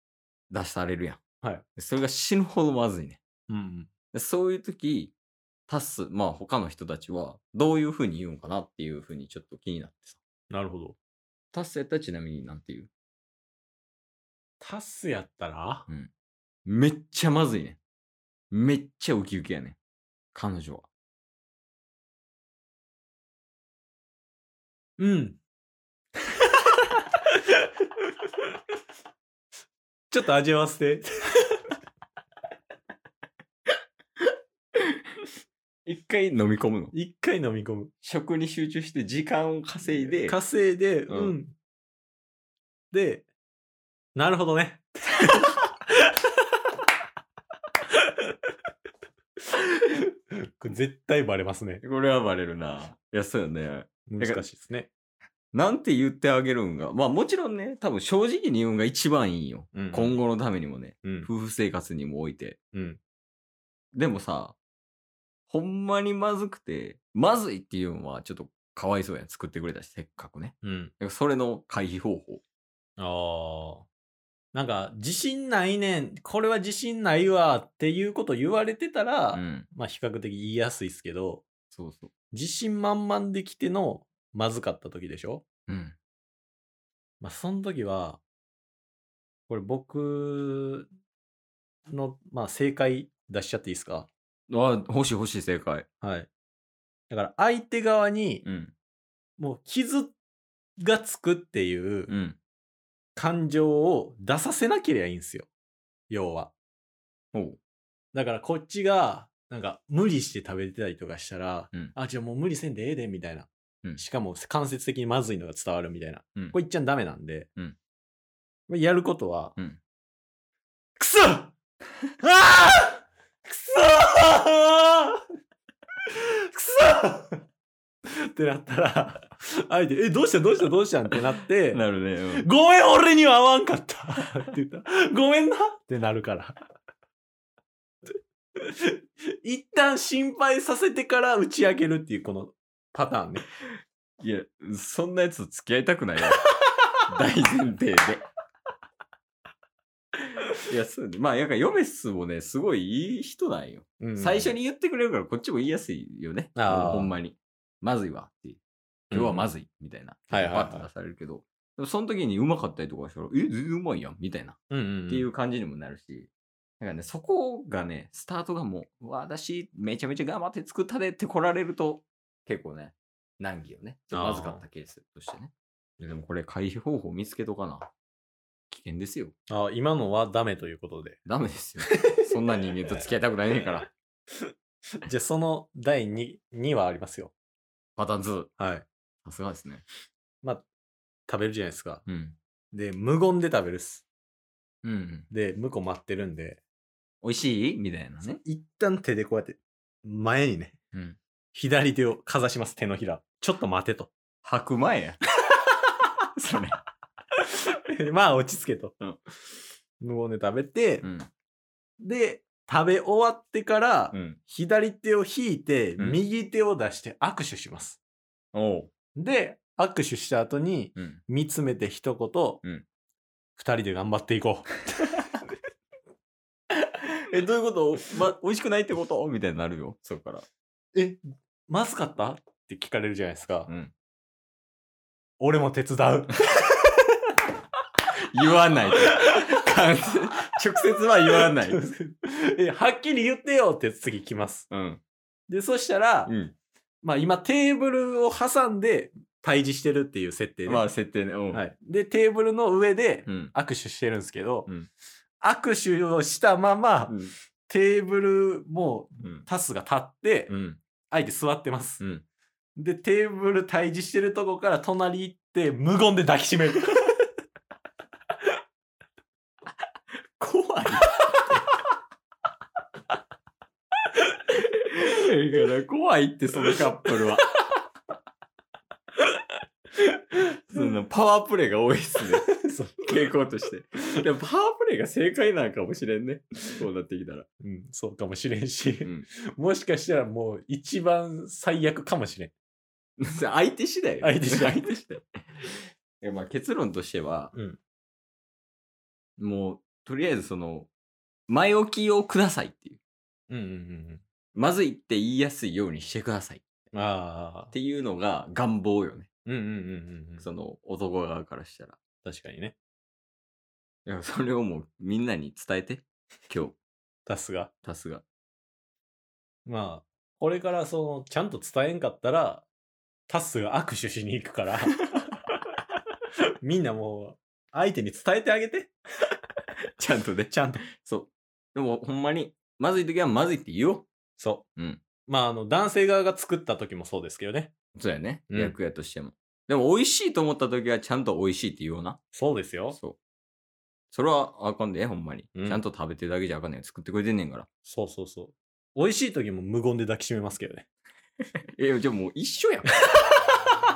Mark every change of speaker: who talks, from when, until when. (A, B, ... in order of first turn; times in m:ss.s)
0:00.5-0:01.2 A
0:01.8-0:03.2 A
0:03.5-0:03.9 B
0:04.1-0:05.1 A
0:05.7-0:10.2 A
0:10.5-0:11.0 B
0:11.5-0:12.9 A
0:14.6-0:15.8 B
0:16.6-0:17.8 A
0:18.5-0:19.8 A
0:20.3-0:20.9 A
0:25.0-0:25.4 B
0:30.1-0:31.1 B
0:35.8-0:36.9 A
0:36.9-0:37.9 B
0:38.0-0:40.4 A
0:39.8-0:41.6 B
0:41.1-0:41.4 A
0:42.9-0:43.3 B
0:44.1-0:45.5 B
0:50.6-0:51.8 B
0:51.8-0:54.4 A
0:54.1-0:54.9 B
0:55.5-1:02.6 A
0:59.7-1:00.2 B
1:01.0-1:01.3 B
1:02.7-1:03.0 B
1:03.9-1:04.6 A
1:05.5-1:12.4 A
1:10.6-1:10.9 B
1:13.0-1:13.9 B
1:14.5-1:21.4 B
1:19.3-1:19.7 A
1:21.7-1:22.1 A
1:22.3-1:25.4 B
1:25.7-1:26.0 A
1:27.2-1:28.2 B
1:29.5-1:30.9 B
1:31.9-1:34.1 B
1:34.5-1:35.9 A
1:36.0-1:36.3 B
1:37.1-1:38.4 B
1:38.4-1:38.7 A
1:39.4-1:40.2 B
1:40.8-1:42.1 B
1:42.1-1:42.4 A
1:43.2-1:45.5 B
1:46.1-1:46.5 B
1:47.3-1:47.6 A
1:48.1-1:57.5 B
1:58.7-1:59.6 B
2:01.0-2:01.5 B
2:02.2-2:05.2 B
2:06.5-2:07.4 B
2:08.3-2:11.8 B
2:11.7-2:12.4 A
2:12.4-2:16.6 B
2:18.6-2:23.4 B
2:24.2-2:26.5 A
2:27.1-2:28.2 A
2:30.7-2:57.9 A
2:34.0-2:34.5 B
2:36.6-2:37.1 B
2:39.1-2:39.5 B
2:40.3-2:40.9 B
2:44.7-2:45.3 B
2:54.1-2:54.6 B
2:58.7-2:59.3 A
2:59.5-3:01.2 B
3:01.2-3:03.9 A
3:01.8-3:02.2 B
3:05.0-3:07.3 B
3:08.0-3:08.5 A
3:08.6-3:08.8 B
3:09.2-3:09.8 A
3:11.3-3:12.0 B
3:12.1-3:12.4 A
3:12.7-3:14.0 B
3:14.8-3:15.3 A
3:15.3-3:16.6 B
3:17.2-3:18.4 A
3:18.4-3:20.8 B
3:20.9-3:21.2 A
3:21.5-3:24.1 B
3:24.4-3:25.2 A
3:26.4-3:26.7 A
3:27.9-3:29.0 B
3:30.0-3:31.0 B
3:31.0-3:31.3 A
3:32.0-3:38.0 B
3:34.1-3:34.4 A
3:38.5-3:38.9 A
3:39.2-3:42.6 B
3:41.0-3:41.2 A
3:43.6-3:45.2 B
3:47.3-3:50.4 A
3:50.9-3:53.7 B
3:53.7-3:53.9 A
3:55.4-3:56.4 B
3:58.3-4:01.8 A
4:01.6-4:04.7 B
4:04.7-4:05.0 A
4:05.5-4:06.3 B
4:06.3-4:06.6 A
4:07.0-4:10.8 B
4:10.6-4:11.6 A
4:11.5-4:14.7 B
4:13.2-4:13.5 A
4:15.4-4:20.5 B
4:17.1-4:17.3 A
4:19.2-4:19.5 A
4:20.5-4:20.8 A
4:21.1-4:22.0 B
4:22.0-4:22.2 A
4:22.8-4:27.1 B
4:30.4-4:31.5 A
4:34.5-4:37.5 A
4:40.7-4:47.5 A
4:42.5-4:43.3 B
4:47.6-4:52.5 B
4:49.0-4:49.3 A
4:53.2-4:57.5 A
4:54.2-4:54.9 B
4:57.5-4:57.8 B
4:59.4-5:00.9 A
5:01.5-5:03.0 A
5:03.5-5:04.2 B
5:04.5-5:06.6 A
5:06.9-5:07.7 B
5:07.7-5:09.3 A
5:09.4-5:10.4 B
5:10.4-5:12.0 A
5:12.2-5:12.8 B
5:14.0-5:16.8 A
5:17.2-5:17.7 B
5:17.8-5:18.2 A
5:19.6-5:22.6 B
5:23.3-5:25.0 B
5:26.6-5:28.9 B
5:30.0-5:34.1 A
5:30.5-5:30.8 B
5:34.4-5:34.6 B
5:34.8-5:35.0 A
5:35.3-5:37.7 B
5:38.0-5:42.2 A
5:38.5-5:38.7 B
5:42.3-5:43.0 B
5:42.9-5:43.2 A
5:44.1-5:47.6 A
5:45.5-5:45.8 B
5:47.8-5:50.8 B
5:51.8-5:52.9 A